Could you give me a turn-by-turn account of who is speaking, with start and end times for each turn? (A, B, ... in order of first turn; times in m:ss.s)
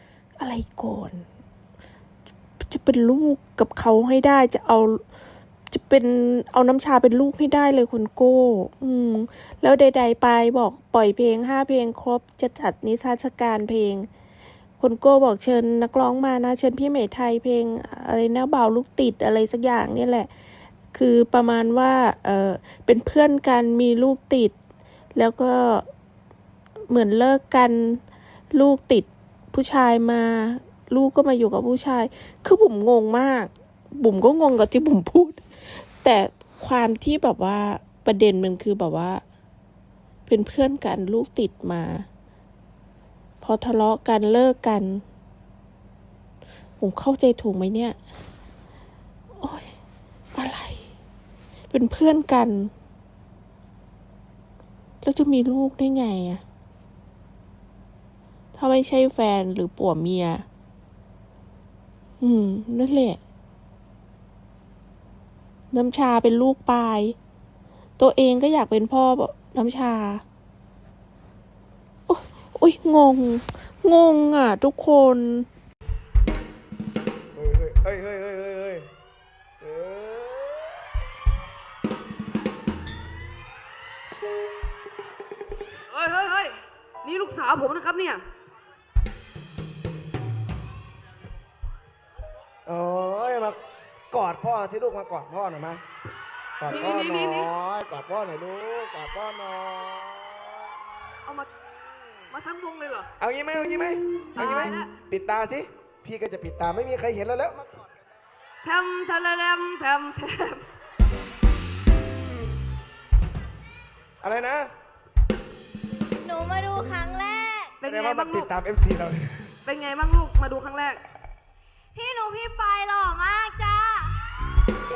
0:00.4-0:01.3 A
0:02.6-0:05.0 A
0:05.7-0:14.1 A
0:14.8-0:20.3 A
0:20.9-0:24.6 A
0:25.2-0:25.9 A
0:26.9-0:39.2 A
0:40.3-0:42.1 A
0:43.4-0:45.0 A
0:46.8-0:48.0 A
0:49.4-0:49.7 A
0:50.3-0:50.8 A
0:51.7-0:52.7 A
0:55.0-0:56.4 A
0:58.6-1:00.5 A
1:02.2-1:03.2 A
1:05.7-1:07.2 A
1:08.0-1:10.2 A
1:12.1-1:15.5 A
1:17.3-1:18.9 B
1:19.6-1:20.8 B
1:25.9-1:28.2 C
1:32.7-1:33.6 B
1:34.1-1:35.8 B
1:36.6-1:40.7 B
1:36.7-1:37.5 C
1:41.2-1:41.5 C
1:42.3-1:43.1 C
1:43.2-1:47.7 B
1:44.3-1:45.0 C
1:48.6-1:50.7 C
1:54.2-1:54.7 B
1:56.2-1:57.7 D
1:57.8-1:58.6 C
1:57.8-1:59.5 B
1:59.6-2:01.0 C
2:01.9-2:04.2 D